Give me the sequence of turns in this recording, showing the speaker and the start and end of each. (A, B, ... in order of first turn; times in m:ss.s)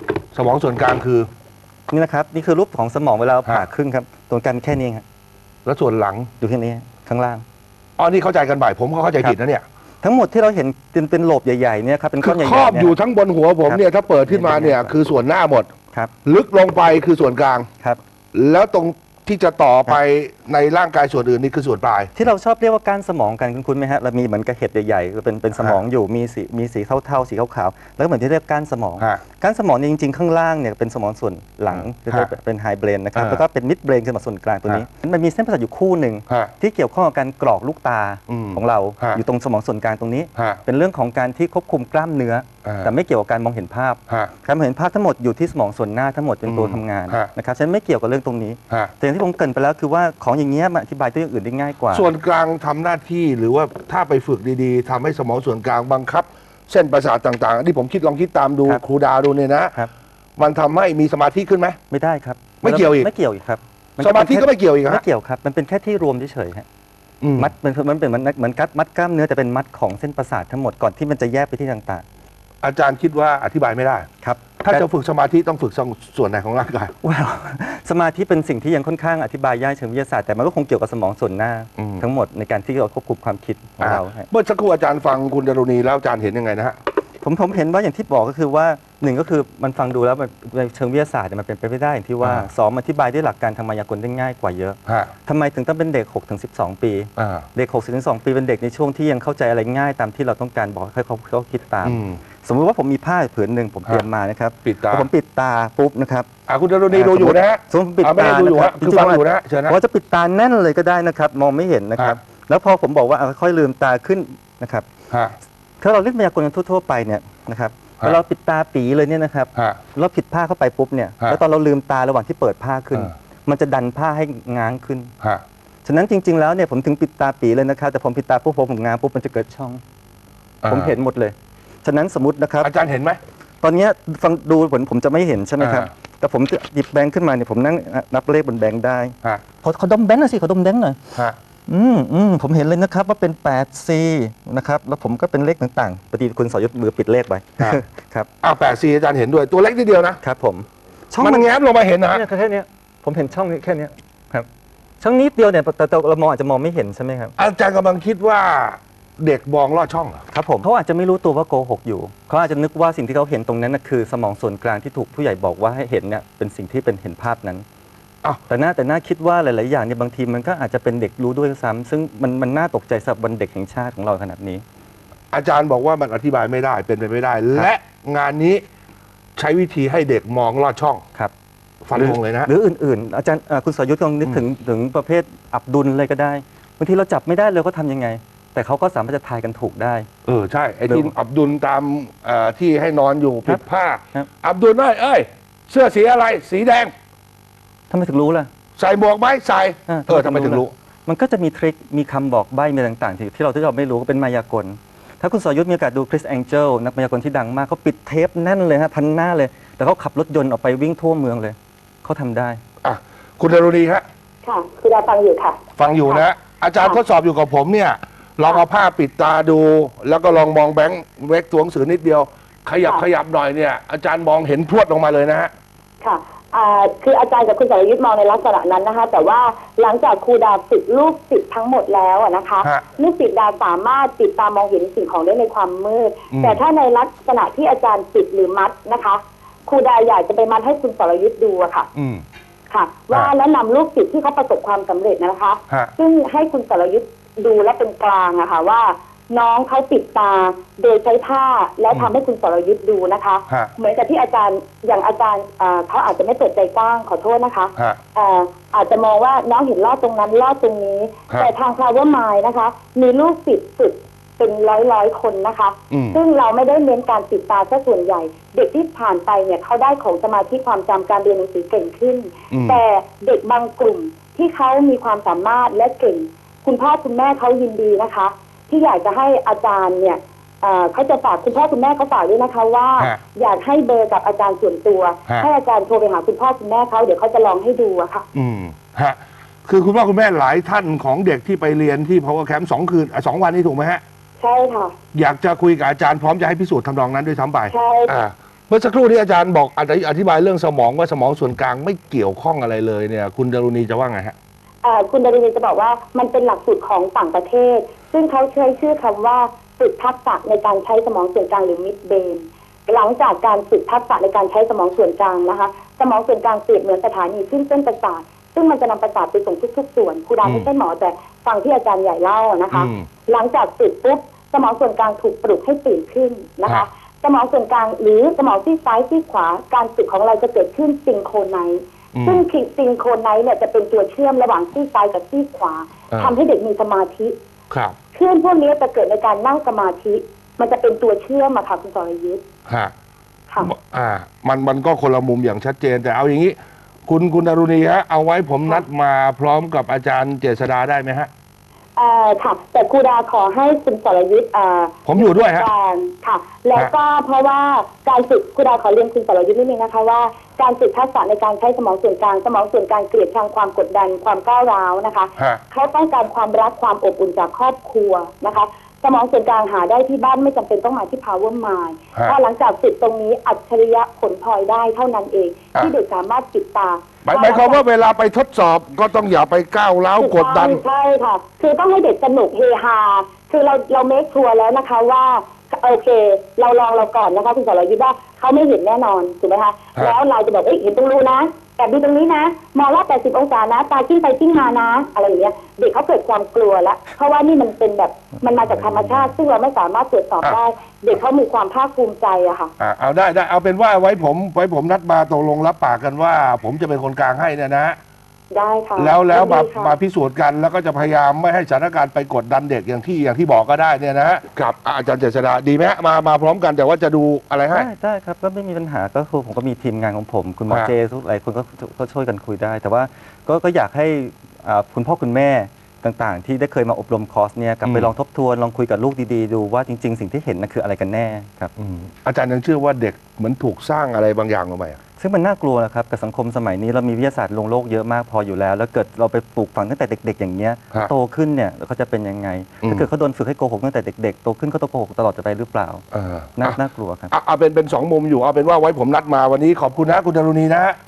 0:00.3-0:01.3 A
0:01.9-0:05.0 B
0:05.6-0:06.3 A
0:06.4-0:07.4 B
0:08.0-0:09.6 A
0:10.0-0:13.0 B
0:12.2-0:15.7 A
0:13.7-0:14.9 B
0:16.2-0:17.7 A
0:18.3-0:22.1 A
0:22.2-0:52.1 B
0:25.6-0:25.8 A
0:31.7-0:32.3 A
0:33.2-0:33.4 A
0:38.3-0:39.2 A
0:42.6-0:42.9 A
0:46.5-0:47.3 A
0:51.9-0:59.8 A
1:00.4-1:01.8 A
1:01.9-1:06.7 B
1:02.6-1:03.1 A
1:04.0-1:05.0 A
1:07.2-1:07.5 A
1:07.4-1:12.0 B
1:12.6-1:14.1 A
1:14.2-1:14.8 B
1:14.6-1:16.9 A
1:17.0-1:24.3 B
1:21.8-1:22.0 A
1:23.8-1:26.8 A
1:27.2-1:46.3 B
1:32.2-1:32.5 A
1:37.2-1:37.5 A
1:41.8-1:42.2 A
1:44.6-1:45.1 A
1:46.5-1:49.8 A
1:46.9-1:54.9 B
1:55.8-2:05.1 B
2:05.8-2:09.8 B
2:10.6-2:10.9 A
2:10.7-2:12.7 B
2:12.6-2:13.2 A
2:13.6-2:21.0 B
2:15.6-2:15.9 A
2:21.7-2:28.3 B
2:28.4-2:30.2 A
2:30.2-2:31.5 B
2:31.2-2:32.2 A
2:32.1-2:34.5 B
2:35.0-2:37.3 B
2:37.4-2:40.2 A
2:40.3-2:47.6 B
2:48.5-2:54.6 B
2:55.3-2:58.6 A
2:59.4-3:01.0 A
3:01.8-3:02.5 A
3:01.9-3:10.1 B
3:10.2-3:16.9 A
3:10.9-3:11.1 B
3:17.9-3:18.5 B
3:18.8-3:20.7 A
3:19.9-3:32.6 B
3:32.8-3:34.0 A
3:34.4-3:36.3 C
3:35.8-3:45.5 A
3:46.0-4:01.9 C
3:56.3-3:56.6 A
4:02.0-4:02.2 A
4:02.7-4:48.2 C
4:25.9-4:26.2 A
4:32.5-4:32.8 A
4:48.3-4:54.0 A
4:54.4-4:55.0 C
4:55.1-5:04.4 A
4:57.7-4:58.1 C
5:04.8-5:37.4 C
5:22.7-5:23.1 A
5:32.1-5:32.4 A
5:37.7-5:38.0 A
5:38.1-5:42.4 C
5:43.6-5:46.6 A
5:47.1-5:51.3 A
5:52.0-6:17.8 C
5:55.1-5:55.7 A
6:17.2-6:20.8 A
6:20.2-6:42.7 C
6:42.8-6:48.0 A
6:48.5-6:50.0 C
6:49.0-6:57.9 A
6:57.7-7:11.7 B
7:07.8-7:08.1 A
7:11.8-7:15.0 A
7:15.2-7:26.0 B
7:26.1-7:26.8 A
7:26.6-7:27.3 B
7:27.3-7:31.0 A